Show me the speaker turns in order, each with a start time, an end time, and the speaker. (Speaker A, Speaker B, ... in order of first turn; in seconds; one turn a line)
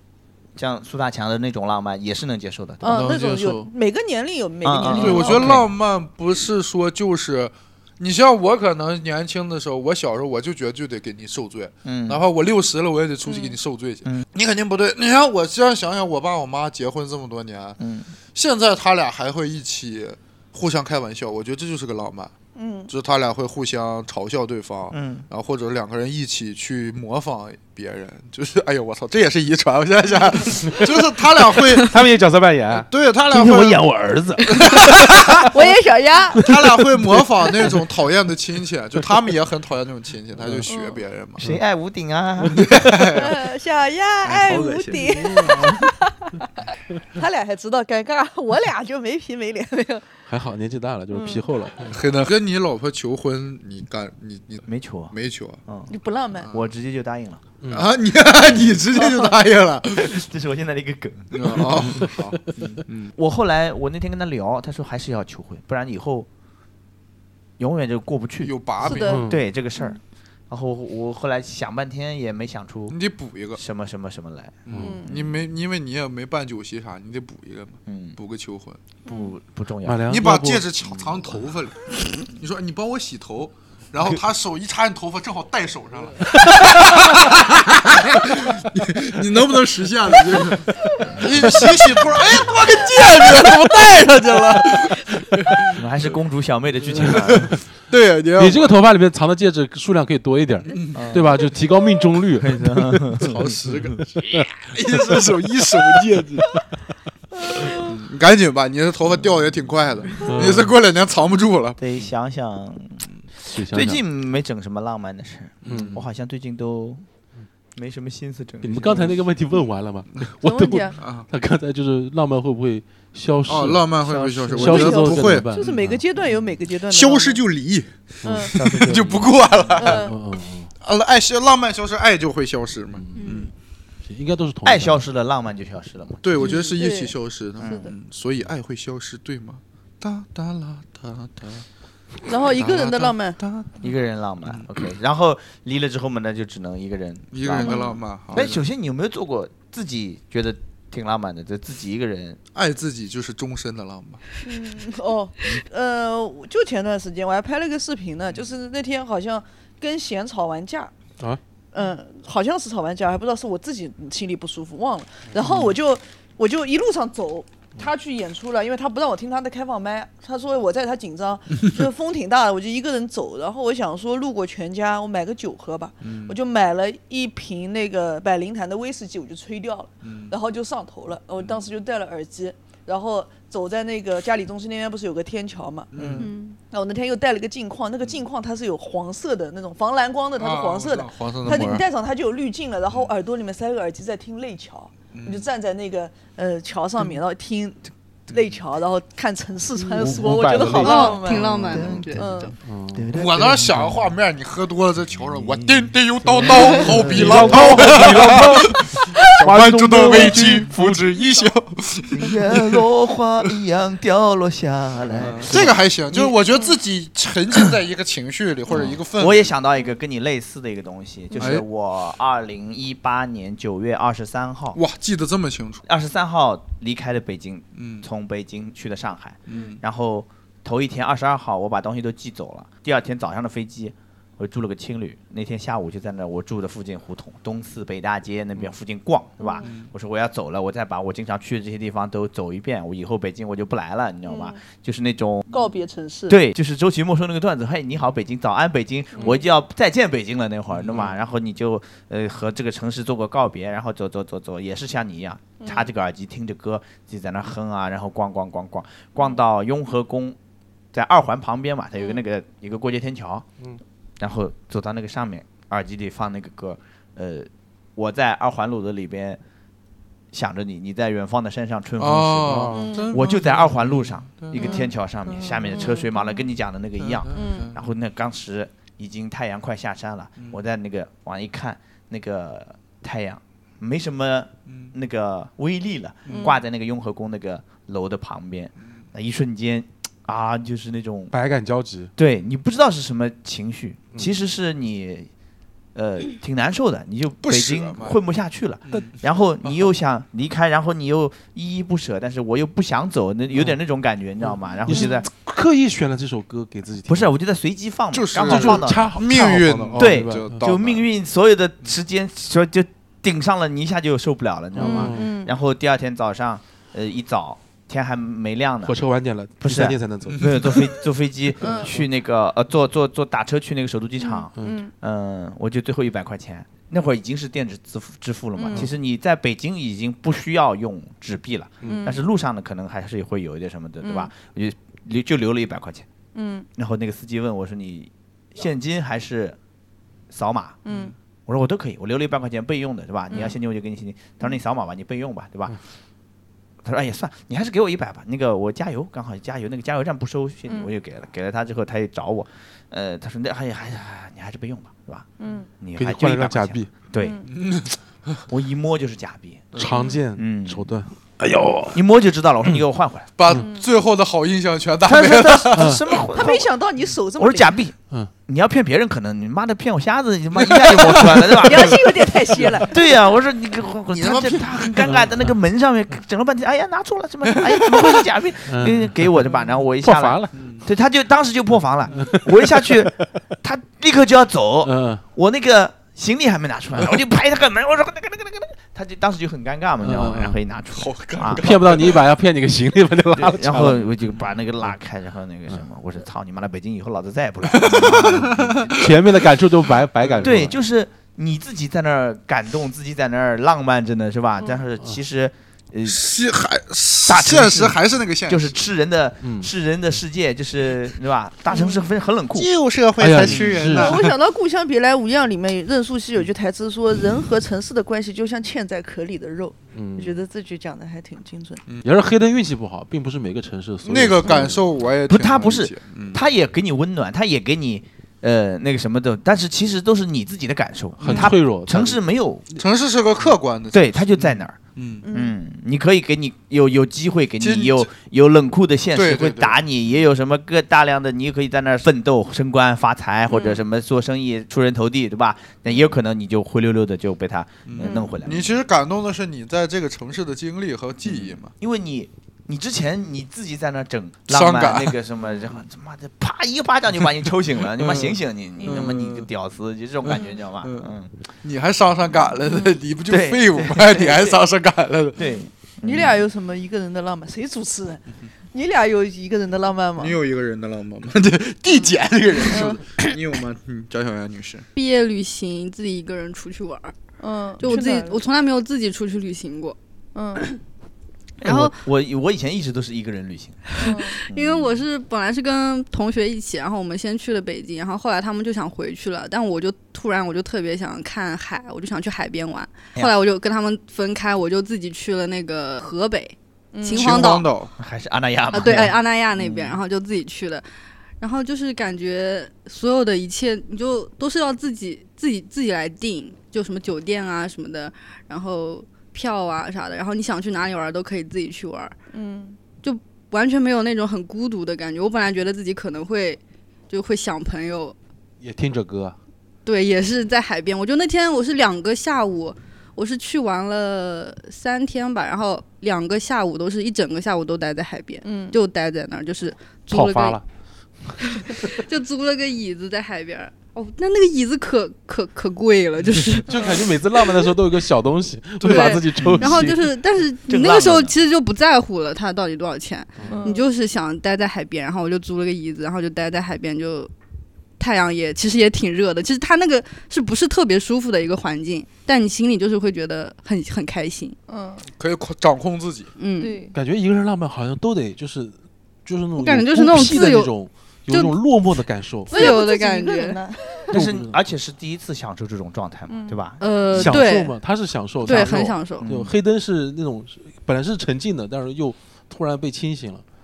Speaker A: 0.6-3.0
Speaker B: 2.8-5.5
Speaker C: 2.8-3.7
Speaker A: 4.6-5.7
Speaker C: 4.9-17.8
Speaker A: 11.8-12.2
Speaker B: 13.3-13.6
Speaker A: 17.8-18.1
Speaker C: 18.3-22.3
Speaker B: 22.5-22.9
Speaker C: 22.9-31.9
Speaker A: 24.9-25.2
Speaker D: 31.8-32.9
Speaker C: 32.8-33.8
Speaker A: 33.3-35.5
Speaker C: 34.5-35.5
Speaker B: 35.5-36.4
Speaker C: 36.4-41.5
Speaker D: 36.4-37.7
Speaker D: 40.4-40.7
Speaker B: 40.7-41.0
Speaker A: 41.4-42.7
Speaker D: 42.4-42.8
Speaker C: 42.5-43.4
Speaker B: 43.1-50.0
Speaker C: 44.2-45.1
Speaker D: 44.9-45.6
Speaker D: 50.3-52.0
Speaker B: 51.1-51.5
Speaker C: 51.9-55.6
Speaker A: 54.7-55.1
Speaker A: 55.6-55.9
Speaker B: 55.9-56.5
Speaker C: 56.4-56.7
Speaker A: 56.5-57.4
Speaker D: 57.6-57.9
Speaker C: 57.7-60.2
Speaker B: 59.0-59.3
Speaker A: 60.0-66.3
Speaker C: 61.3-63.1
Speaker D: 61.9-62.2
Speaker A: 67.6-68.5
Speaker C: 68.4-69.2
Speaker B: 68.8-69.2
Speaker D: 69.0-69.4
Speaker A: 69.1-70.0
Speaker A: 70.5-73.0
Speaker C: 72.9-73.6
Speaker A: 73.5-75.4
Speaker C: 74.7-78.8
Speaker D: 74.7-75.0
Speaker B: 74.8-75.1
Speaker A: 77.9-78.2
Speaker A: 79.1-80.2
Speaker D: 79.8-80.7
Speaker C: 80.1-95.8
Speaker D: 86.6-86.9
Speaker D: 93.2-94.7
Speaker A: 95.7-97.5
Speaker D: 96.9-97.6
Speaker C: 97.0-98.8
Speaker D: 98.4-105.3
Speaker C: 100.7-101.2
Speaker A: 100.9-101.3
Speaker A: 102.3-103.4
Speaker C: 103.2-106.5
Speaker C: 107.6-111.8
Speaker D: 110.2-110.7
Speaker A: 111.8-117.0
Speaker D: 113.5-114.0
Speaker C: 115.6-116.0
Speaker D: 115.7-116.0
Speaker A: 117.7-119.2
Speaker D: 118.6-123.9
Speaker B: 120.4-121.0
Speaker C: 121.0-121.2
Speaker C: 123.5-125.7
Speaker A: 124.0-124.7
Speaker D: 124.5-126.0
Speaker B: 124.6-127.4
Speaker C: 126.9-130.1
Speaker D: 128.2-129.3
Speaker B: 128.2-128.5
Speaker B: 129.8-130.1
Speaker D: 129.8-130.7
Speaker C: 130.8-133.5
Speaker D: 132.9-133.4
Speaker E: 133.2-133.5
Speaker D: 134.0-135.0
Speaker A: 134.6-136.3
Speaker C: 136.2-141.6
Speaker B: 136.4-137.9
Speaker B: 142.3-143.4
Speaker C: 142.4-143.9
Speaker A: 143.8-152.4
Speaker C: 144.4-144.8
Speaker C: 147.3-148.7
Speaker B: 147.6-148.0
Speaker C: 152.5-154.2
Speaker B: 154.4-160.9
Speaker B: 161.7-202.5
Speaker C: 176.0-176.3
Speaker C: 180.0-180.3
Speaker C: 185.9-186.3
Speaker E: 186.2-186.6
Speaker C: 190.4-191.8
Speaker C: 195.1-195.5
Speaker D: 199.9-203.1
Speaker E: 200.7-202.5
Speaker A: 201.4-203.8
Speaker C: 203.1-212.8
Speaker D: 206.2-211.1
Speaker A: 206.4-208.0
Speaker A: 212.1-216.3
Speaker D: 215.2-215.4
Speaker C: 215.2-219.5
Speaker A: 218.7-224.8
Speaker C: 221.4-221.7
Speaker C: 224.7-225.8
Speaker A: 225.9-245.6
Speaker C: 227.7-228.1
Speaker C: 229.5-229.8
Speaker B: 239.4-239.7
Speaker C: 239.6-239.9
Speaker B: 244.2-244.6
Speaker B: 245.5-246.4
Speaker A: 246.3-260.4
Speaker B: 249.1-249.4
Speaker C: 250.7-251.2
Speaker B: 255.6-255.9
Speaker A: 260.9-263.4
Speaker A: 264.2-269.4
Speaker A: 270.3-291.3
Speaker C: 272.0-274.8
Speaker D: 272.4-272.9
Speaker B: 272.7-273.1
Speaker B: 275.7-276.1
Speaker C: 277.0-277.9
Speaker B: 277.3-277.7
Speaker C: 284.7-284.9
Speaker C: 286.2-286.5
Speaker B: 286.3-286.6
Speaker D: 291.3-292.1
Speaker A: 292.2-295.3
Speaker A: 295.9-305.3
Speaker C: 297.4-298.2
Speaker C: 298.9-299.9
Speaker D: 304.4-307.3
Speaker A: 307.1-318.9
Speaker C: 308.1-311.1
Speaker D: 308.4-310.7
Speaker D: 314.8-315.3
Speaker B: 314.8-315.5
Speaker D: 318.8-320.8
Speaker A: 319.6-336.1
Speaker C: 320.3-320.6
Speaker B: 321.6-321.9
Speaker B: 324.4-324.9
Speaker B: 328.6-328.9
Speaker B: 331.8-332.2
Speaker B: 334.0-334.3
Speaker B: 336.3-336.7
Speaker A: 336.8-339.6
Speaker A: 340.3-340.8
Speaker B: 340.8-341.1
Speaker A: 341.5-345.8
Speaker A: 346.8-355.3
Speaker B: 355.4-355.7
Speaker A: 355.8-357.4
Speaker D: 355.9-356.9
Speaker B: 357.2-357.5
Speaker C: 357.5-358.4
Speaker A: 358.5-359.8
Speaker D: 359.7-362.0
Speaker A: 360.4-360.9
Speaker A: 361.9-363.3
Speaker C: 363.4-366.1
Speaker B: 363.5-363.8
Speaker A: 365.0-366.7
Speaker D: 365.7-366.0
Speaker B: 366.3-367.8
Speaker A: 367.4-372.1
Speaker C: 370.6-371.8
Speaker B: 371.5-372.9
Speaker A: 372.8-391.6
Speaker C: 374.1-375.1
Speaker D: 375.0-375.3
Speaker C: 377.7-378.2
Speaker D: 378.7-379.4
Speaker D: 380.0-380.5
Speaker C: 380.5-380.8
Speaker D: 382.1-383.1
Speaker D: 384.8-385.2
Speaker D: 390.0-390.6
Speaker C: 390.9-392.2
Speaker D: 391.6-394.1
Speaker A: 393.3-399.0
Speaker C: 397.7-399.1
Speaker D: 398.9-400.8
Speaker C: 400.2-400.7
Speaker A: 400.4-406.2
Speaker C: 406.0-408.8
Speaker A: 407.2-412.7
Speaker D: 409.4-409.7
Speaker B: 411.7-412.0
Speaker C: 412.5-414.3
Speaker D: 413.2-414.1
Speaker A: 413.4-413.7
Speaker B: 413.9-421.8
Speaker D: 419.9-420.4
Speaker D: 422.0-424.8
Speaker C: 424.0-426.4
Speaker A: 425.3-432.6
Speaker C: 431.2-431.5
Speaker D: 431.2-432.2
Speaker C: 432.8-435.2
Speaker A: 433.9-434.8
Speaker B: 435.2-435.6
Speaker A: 435.3-448.7
Speaker C: 437.6-438.1
Speaker C: 439.1-439.8
Speaker E: 443.5-443.8
Speaker C: 447.9-451.7
Speaker E: 448.0-448.3
Speaker A: 451.2-461.3
Speaker C: 454.5-455.2
Speaker C: 457.8-459.5
Speaker C: 460.2-465.5
Speaker A: 463.3-464.6
Speaker A: 465.4-466.4
Speaker B: 466.0-470.4
Speaker C: 470.2-474.9
Speaker B: 472.7-473.0
Speaker E: 474.9-477.1
Speaker B: 477.4-478.5
Speaker E: 477.8-479.9
Speaker B: 480.3-480.6
Speaker A: 481.6-483.8
Speaker E: 481.6-482.0
Speaker E: 483.9-497.7
Speaker B: 484.0-484.4
Speaker A: 484.5-485.1
Speaker B: 496.9-497.4
Speaker C: 497.1-497.9
Speaker A: 498.0-500.0
Speaker E: 498.7-500.8
Speaker E: 501.4-512.1
Speaker B: 512.3-512.8
Speaker E: 513.0-518.1
Speaker D: 518.6-519.4
Speaker E: 519.8-530.6
Speaker B: 528.4-528.8
Speaker D: 530.1-530.6
Speaker E: 531.4-537.7
Speaker D: 536.7-540.1
Speaker B: 536.7-537.0
Speaker C: 538.8-539.8
Speaker E: 538.8-547.3
Speaker A: 540.7-541.4
Speaker B: 543.5-543.8
Speaker E: 548.0-554.5
Speaker B: 554.7-555.0
Speaker C: 555.1-556.3
Speaker E: 556.4-556.8
Speaker B: 556.6-556.9
Speaker D: 556.9-558.7
Speaker D: 559.2-562.7
Speaker E: 559.6-560.7
Speaker E: 561.3-561.6
Speaker E: 562.5-563.6
Speaker B: 562.5-564.1
Speaker D: 564.1-564.5
Speaker A: 564.1-567.4
Speaker B: 566.3-566.6
Speaker E: 566.8-567.8
Speaker D: 567.1-573.4
Speaker E: 568.4-569.3
Speaker A: 568.5-569.5